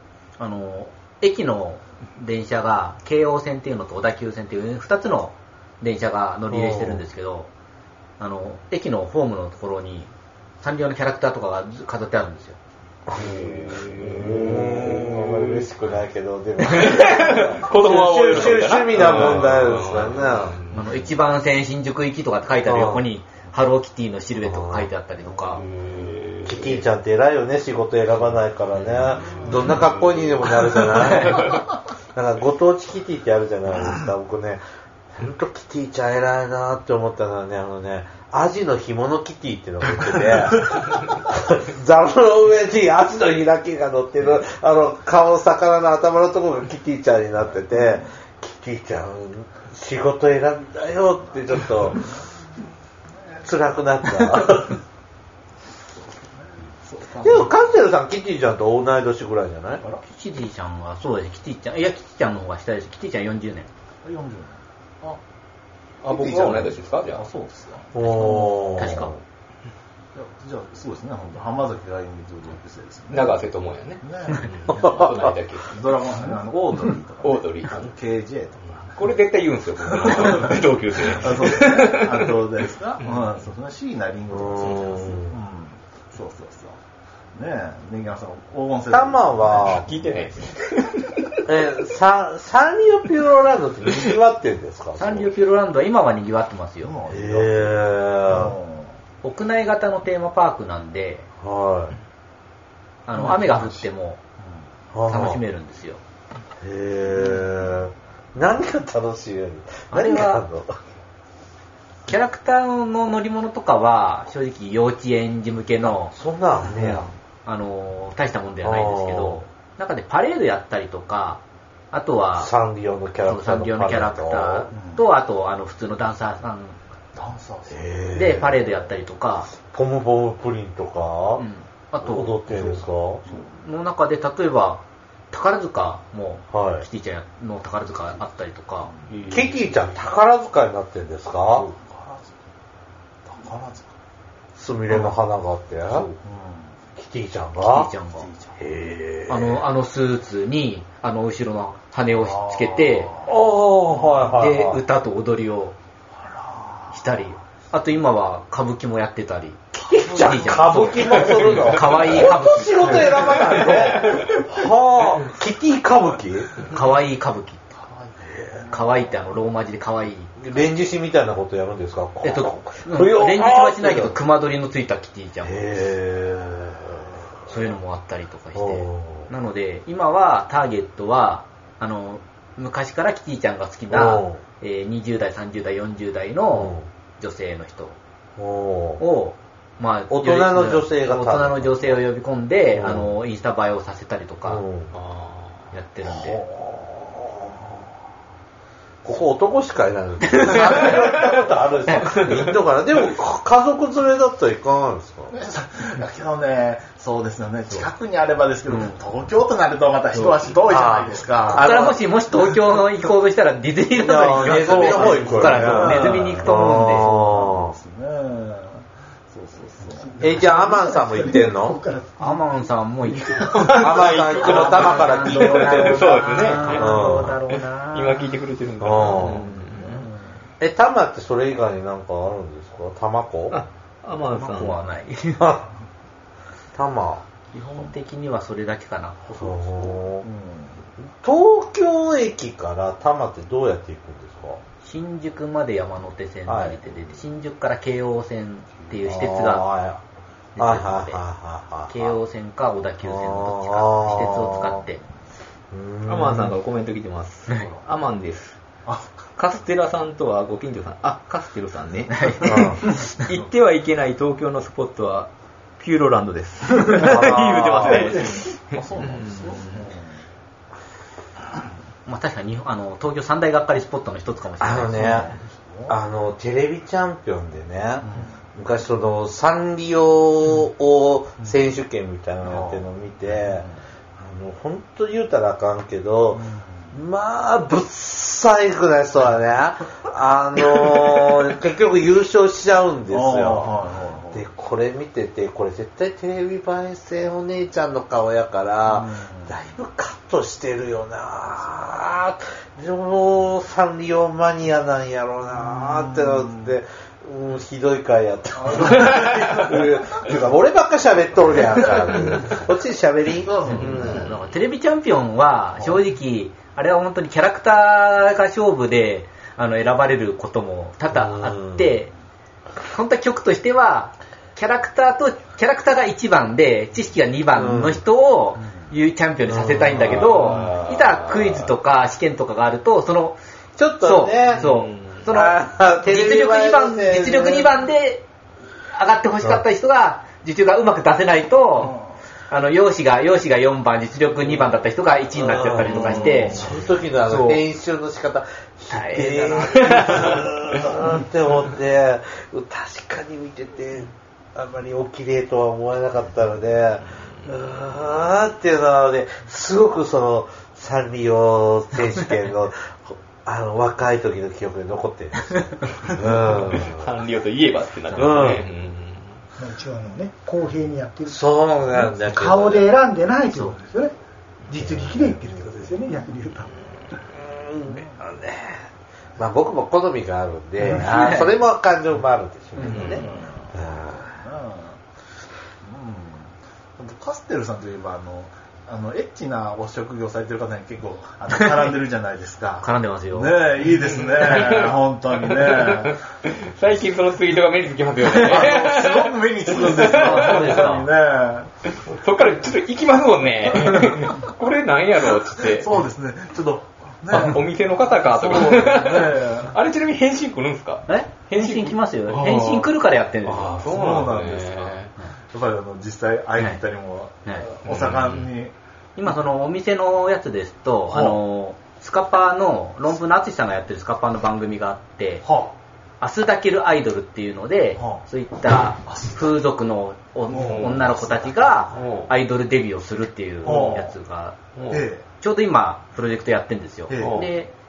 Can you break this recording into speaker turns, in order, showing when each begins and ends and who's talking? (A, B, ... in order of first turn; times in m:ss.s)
0:00.4-0:07.5 A
0:06.5-0:07.0 B
0:08.2-0:10.1 A
0:10.6-0:12.6 A
0:13.1-0:20.6 B
0:13.1-0:15.7 C
0:16.6-0:21.0 C
0:20.7-0:25.6 A
0:22.7-0:23.0 B
0:24.4-0:24.9 B
0:25.5-0:26.8 C
0:26.4-0:34.6 B
0:28.7-0:31.6 C
0:35.2-0:52.1 B
0:47.7-0:48.1 D
0:53.4-0:54.8 B
0:56.0-0:57.6 D
0:57.2-0:59.8 B
1:00.0-1:03.7 A
1:04.0-1:05.2 D
1:06.0-1:07.2 C
1:06.0-1:09.0 D
1:08.0-1:09.1 B
1:08.0-1:09.1 A
1:10.1-1:13.4 D
1:13.1-1:15.9 C
1:14.0-1:15.1 D
1:14.7-1:15.1 B
1:15.6-1:19.1 D
1:17.2-1:17.9 C
1:18.8-1:22.5 C
1:19.9-1:26.8 D
1:23.0-1:23.3 C
1:24.3-1:25.4 B
1:27.3-1:29.9 D
1:28.9-1:29.9 B
1:29.6-1:31.4 C
1:31.5-1:35.3 B
1:35.0-1:36.9 A
1:36.8-1:38.9 D
1:37.1-1:38.6 B
1:39.2-1:41.3 A
1:41.4-1:42.0 B
1:43.1-1:44.2 A
1:43.2-1:43.9 D
1:44.9-1:45.4 B
1:45.1-1:46.0 A
1:46.6-1:50.8 B
1:47.1-1:47.8 D
1:49.9-1:50.4 A
1:52.1-1:56.1 A
1:56.1-1:57.1 B
1:56.8-1:57.1 D
1:57.5-2:01.4 A
1:58.6-1:59.4 B
2:01.9-2:02.5 A
2:02.4-2:04.7 B
2:03.2-2:06.8 A
2:04.7-2:05.0 D
2:07.2-2:07.8 D
2:07.7-2:08.8 B
2:08.2-2:09.5 A
2:09.5-2:11.4 B
2:11.4-2:18.9 A
2:12.0-2:13.2 B
2:16.5-2:16.9 B
2:19.1-2:20.0 C
2:19.3-2:21.7 B
2:21.5-2:22.3 D
2:23.2-2:23.9 D
2:24.6-2:26.1 B
2:25.9-2:26.2 A
2:26.2-2:26.7 D
2:27.0-2:27.9 B
2:27.6-2:28.3 A
2:28.2-2:28.6 D
2:28.6-2:29.6 B
2:29.3-2:33.1 A
2:32.2-2:34.4 D
2:33.2-2:34.8 B
2:34.4-2:35.8 A
2:36.2-2:37.0 D
2:36.9-2:43.6 A
2:39.8-2:46.7 B
2:41.3-2:41.6 C
2:43.6-2:44.2 C
2:46.7-2:47.7 A
2:47.8-2:48.7 D
2:48.3-2:48.7 B
2:48.7-2:50.4 A
2:50.4-2:54.1 B
2:52.2-2:55.7 A
2:55.4-2:57.5 B
2:57.5-3:08.0 A
2:58.6-2:59.3 B
3:03.9-3:04.4 B
3:06.5-3:06.9 B
3:08.4-3:09.0 B
3:09.0-3:14.6 A
3:10.1-3:12.0 B
3:12.8-3:13.1 B
3:14.5-3:14.9 B
3:14.9-3:15.6 C
3:15.7-3:16.4 A
3:16.2-3:17.6 B
3:19.0-3:25.3 B
3:20.3-3:21.1 A
3:21.9-3:22.2 A
3:25.3-3:31.9 D
3:28.7-3:29.0 A
3:30.1-3:30.4 A
3:30.7-3:32.0 B
3:31.5-3:37.1 A
3:34.0-3:37.7 B
3:34.2-3:40.3 D
3:40.0-3:42.4 E
3:40.2-3:41.8 B
3:42.2-3:48.3 A
3:43.6-3:50.1 C
3:43.7-3:46.1 B
3:44.1-3:46.8 D
3:46.7-3:47.3 B
3:48.8-3:49.4 B
3:49.1-3:50.4 D
3:50.6-3:53.6 B
3:53.5-3:54.8 C
3:54.4-3:55.5 A
3:55.4-3:55.7 B
3:56.8-3:57.2 B
3:57.5-3:59.4 A
3:59.3-4:00.8 D
3:59.4-4:00.3 B
4:01.2-4:04.6 B
4:04.8-4:09.7 A
4:06.5-4:07.2 B
4:09.0-4:10.0 B
4:10.6-4:11.2 A
4:10.6-4:12.2 B
4:11.9-4:15.0 A
4:13.0-4:14.8 B
4:15.7-4:16.6 B
4:16.1-4:18.6 C
4:19.4-4:29.8 C
4:22.1-4:23.1 A
4:22.4-4:22.8 B
4:26.9-4:28.2 B
4:27.9-4:30.2 D
4:32.1-4:35.2 A
4:34.6-4:35.3 B
4:35.0-4:36.0 D
4:35.9-4:43.6 B
4:38.0-4:38.3 D
4:42.4-4:43.7 D
4:44.2-4:53.7 B
4:46.3-4:46.9 D
4:53.1-4:54.5 D
4:54.3-5:14.3 B
4:58.9-4:59.5 D
5:05.5-5:06.7 D
5:08.6-5:09.6 D
5:13.5-5:14.2 D
5:13.7-5:22.1 A
5:21.1-5:21.9 B
5:22.9-5:33.4 A
5:27.6-5:28.0 B
5:29.6-5:30.2 B
5:29.9-5:31.7 C
5:30.4-5:30.8 D
5:33.8-5:34.7 B
5:34.0-5:38.2 A
5:34.6-5:35.2 C
5:35.3-5:37.8 B
5:38.9-5:42.0 A
5:42.5-5:46.6 A
5:45.4-6:07.1 B
5:46.3-5:46.9 D
5:47.3-5:47.6 A
5:48.9-5:50.5 A
6:06.7-6:09.4 C
6:08.1-6:08.6 B
6:09.6-6:11.4 E
6:11.3-6:12.9 B
6:11.9-6:14.1 E
6:13.5-6:13.8 A
6:14.7-6:16.7 E
6:17.3-6:18.8 B
6:19.4-6:23.2 B
6:20.9-6:21.5 A
6:22.8-6:23.3 A
6:22.8-6:23.2 C
6:23.0-6:25.0 D
6:23.8-6:24.3 B
6:25.8-6:36.2 D
6:32.8-6:33.6 A
6:33.9-6:41.0 C
6:38.2-6:41.7 D
6:40.0-6:41.1 A
6:41.9-6:45.9 C
6:45.6-6:49.7 D
6:47.3-6:52.7 C
6:51.1-6:53.7 A
6:52.3-6:52.8 D
6:53.4-6:55.1 C
6:53.8-6:58.7 D
6:57.8-6:58.5 C
6:59.2-7:05.5 A
7:01.1-7:01.4 D
7:05.4-7:05.7 D
7:06.2-7:14.6 A
7:09.1-7:09.6 D
7:10.5-7:12.0 D
7:10.5-7:11.0 C
7:11.9-7:12.3 C
7:13.6-7:14.1 D
7:13.7-7:14.0 C
7:14.8-7:15.1 C
7:14.9-7:15.2 D
7:15.4-7:17.7 A
7:17.1-7:17.4 D
7:17.2-7:17.5 C